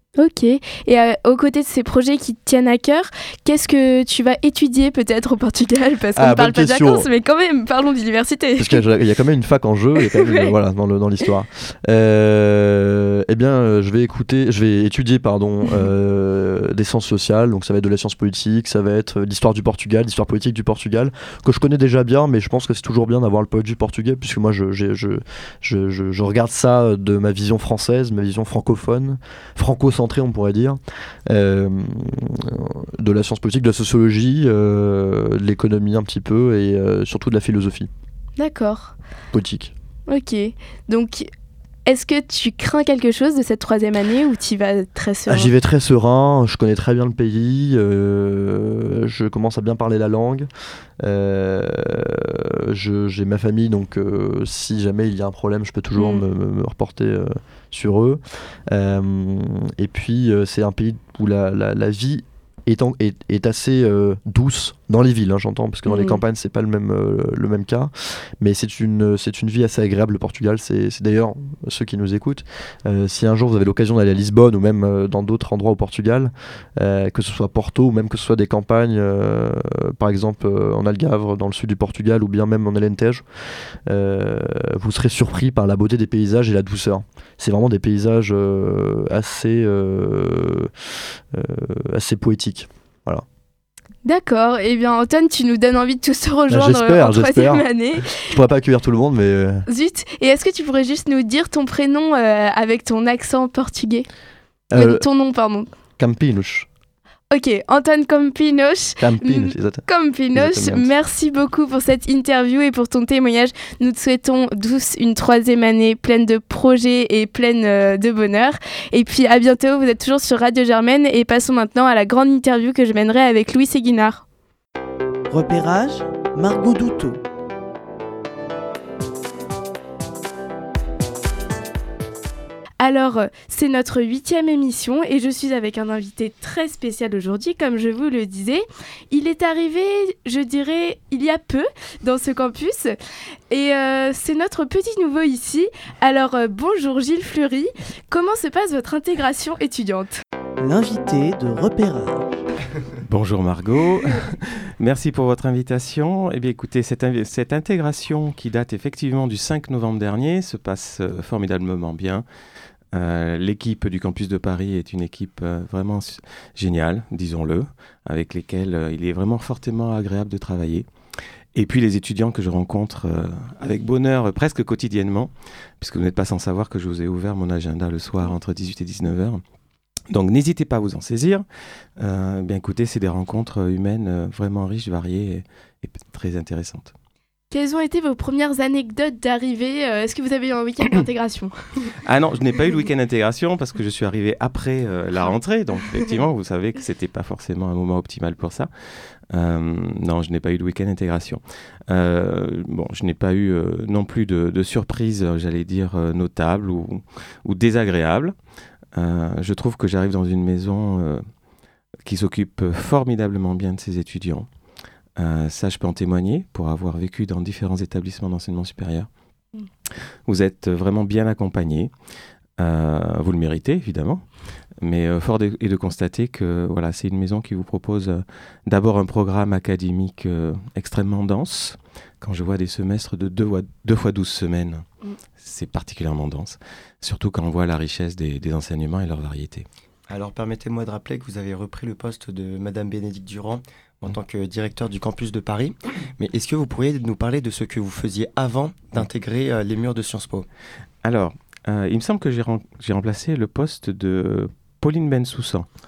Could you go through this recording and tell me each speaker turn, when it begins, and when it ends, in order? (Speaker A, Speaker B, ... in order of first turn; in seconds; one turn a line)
Speaker A: 0.2-8.8
Speaker B: 6.2-7.1
Speaker B: 8.6-37.9
Speaker A: 10.2-10.5
Speaker A: 38.4-38.9
Speaker B: 39.3-39.7
Speaker A: 40.1-41.3
Speaker A: 41.9-45.5
Speaker B: 45.3-50.5
Speaker B: 51.0-83.2
Speaker A: 56.0-56.2
Speaker A: 65.9-66.2
Speaker B: 83.8-90.7
Speaker B: 91.3-93.2
Speaker A: 94.0-98.3
Speaker B: 96.5-99.6
Speaker A: 99.7-104.1
Speaker B: 104.7-105.0
Speaker A: 104.7-105.7
Speaker B: 106.0-106.7
Speaker A: 107.3-124.2
Speaker B: 109.0-110.9
Speaker C: 125.3-127.2
Speaker A: 132.8-142.9
Speaker A: 143.5-150.2
Speaker C: 150.6-152.3
Speaker D: 153.0-162.2
Speaker D: 162.9-170.8
Speaker D: 171.5-179.4
Speaker D: 180.1-181.4
Speaker D: 182.0-186.9
Speaker A: 187.5-191.9
Speaker D: 192.0-208.3
Speaker D: 208.9-211.2
Speaker D: 212.0-214.5
Speaker D: 215.2-219.1
Speaker D: 220.3-221.9
Speaker D: 222.6-224.2
Speaker D: 224.8-234.8
Speaker D: 235.4-239.7
Speaker E: 240.1-250.5
Speaker D: 251.0-255.7